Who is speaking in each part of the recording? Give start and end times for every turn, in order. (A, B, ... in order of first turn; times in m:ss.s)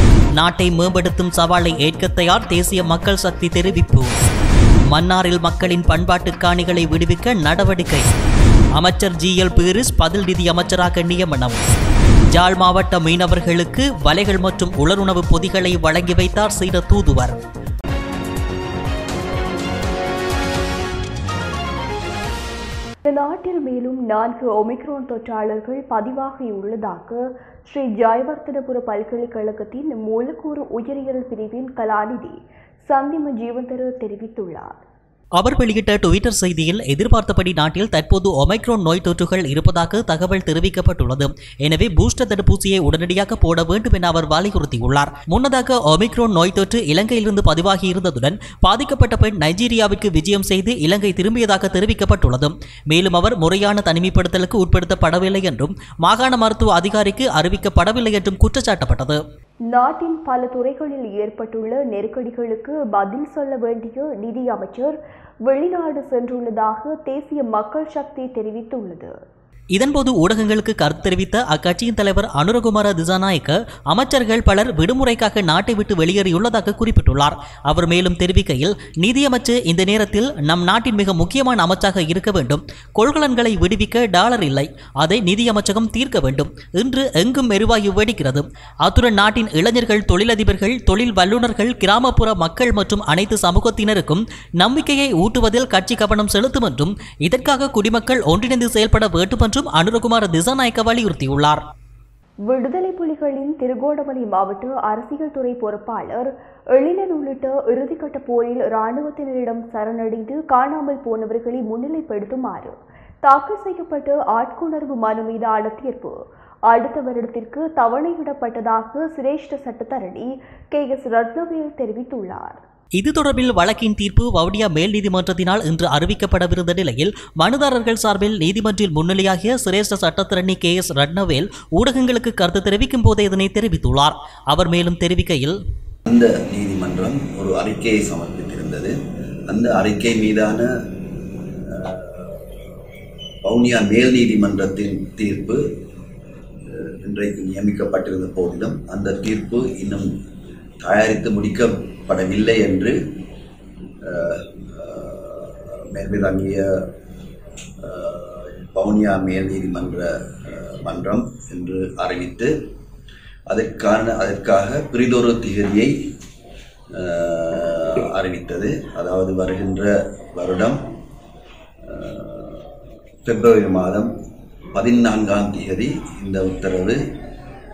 0:00.4-0:04.1 A
0:04.9-0:08.1 A
0:08.8-0:11.6 A
0:12.3-0:17.4 A
0:23.1-0:34.8 B
0:35.4-0:59.2 A
0:59.7-1:05.0 B
1:05.5-1:09.1 B
1:09.8-1:41.6 A
1:42.5-1:56.2 B
1:56.7-2:02.6 B
2:03.0-2:15.6 A
2:16.1-2:19.0 C
2:19.5-2:20.7 C
2:21.6-2:22.5 C
2:23.4-2:25.6 C
2:26.7-2:30.1 C
2:30.8-2:33.0 C
2:34.0-2:36.8 C
2:37.8-2:42.5 C
2:43.5-2:46.0 C
2:47.0-2:50.8 C
2:51.8-2:52.7 C
2:53.2-2:54.1 C
2:54.7-2:57.0 C